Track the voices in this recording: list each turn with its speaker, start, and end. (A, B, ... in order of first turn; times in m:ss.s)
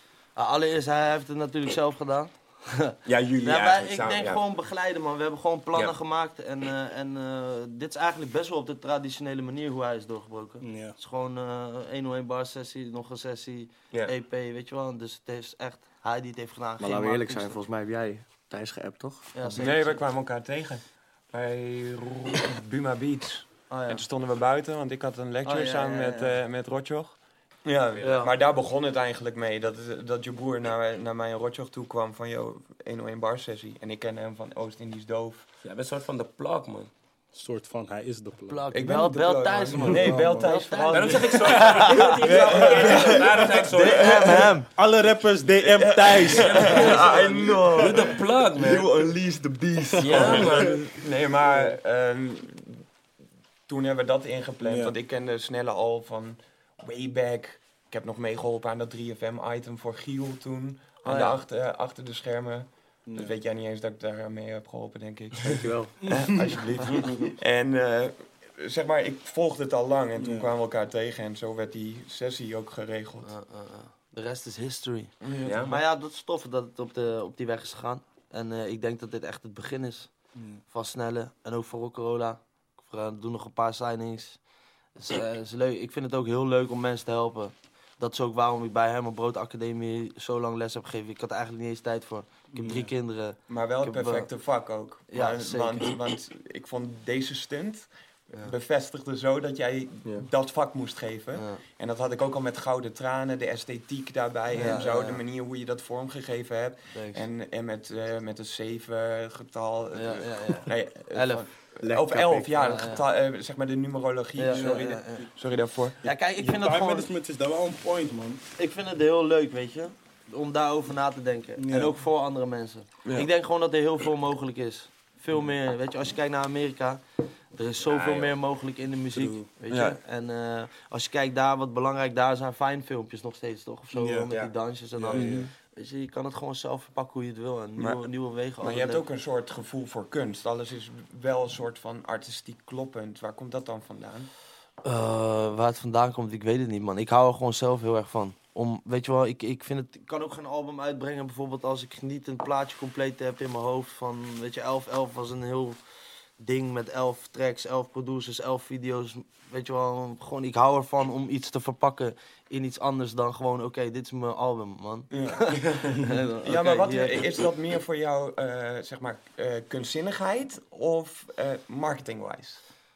0:00.4-0:17.6 A
0:03.0-0:04.4 B
0:10.6-0:10.9 C
0:16.8-0:19.6 D
0:19.3-0:20.0 A
0:19.6-0:35.4 E
0:23.7-0:24.0 A
0:25.4-0:26.4 A
0:28.0-0:28.3 A
0:35.6-0:36.9 B
0:37.3-0:38.7 C
0:38.5-0:44.7 A
0:38.7-0:44.5 E
0:39.7-0:40.5 C
0:40.9-0:44.3 B
0:42.2-0:43.1 C
0:44.7-0:47.0 C
0:45.7-0:52.8 E
0:46.3-0:48.9 B
0:50.0-0:50.8 C
0:50.0-0:50.8 B
0:53.7-1:13.3 E
0:54.6-0:54.9 C
1:01.0-1:01.4 A
1:03.1-1:03.3 C
1:05.4-1:06.0 D
1:06.5-1:07.3 A
1:10.2-1:10.5 C
1:13.2-1:20.1 A
1:15.2-1:15.8 E
1:15.4-1:15.7 B
1:20.4-1:20.6 C
1:20.7-1:24.4 A
1:25.0-1:34.3 A
1:32.5-1:32.9 C
1:33.5-1:56.0 E
1:35.1-1:36.0 A
1:41.3-1:41.6 A
1:44.5-1:45.2 A
1:46.9-1:47.3 A
1:49.9-1:51.4 A
1:51.8-1:52.9 D
1:52.6-1:53.0 A
1:54.4-1:55.3 A
1:54.5-1:55.2 C
1:56.0-1:57.1 A
1:56.4-1:58.4 C
1:58.6-2:07.0 A
2:01.6-2:02.0 C
2:03.0-2:03.3 E
2:07.5-2:19.0 A
2:07.8-2:08.4 B
2:09.1-2:09.5 C
2:09.7-2:10.0 E
2:13.9-2:14.3 C
2:15.0-2:15.5 C
2:15.1-2:15.4 E
2:17.8-2:18.0 E
2:18.6-2:24.3 E
2:24.8-2:35.8 A
2:36.4-2:47.4 A
2:45.1-2:52.6 E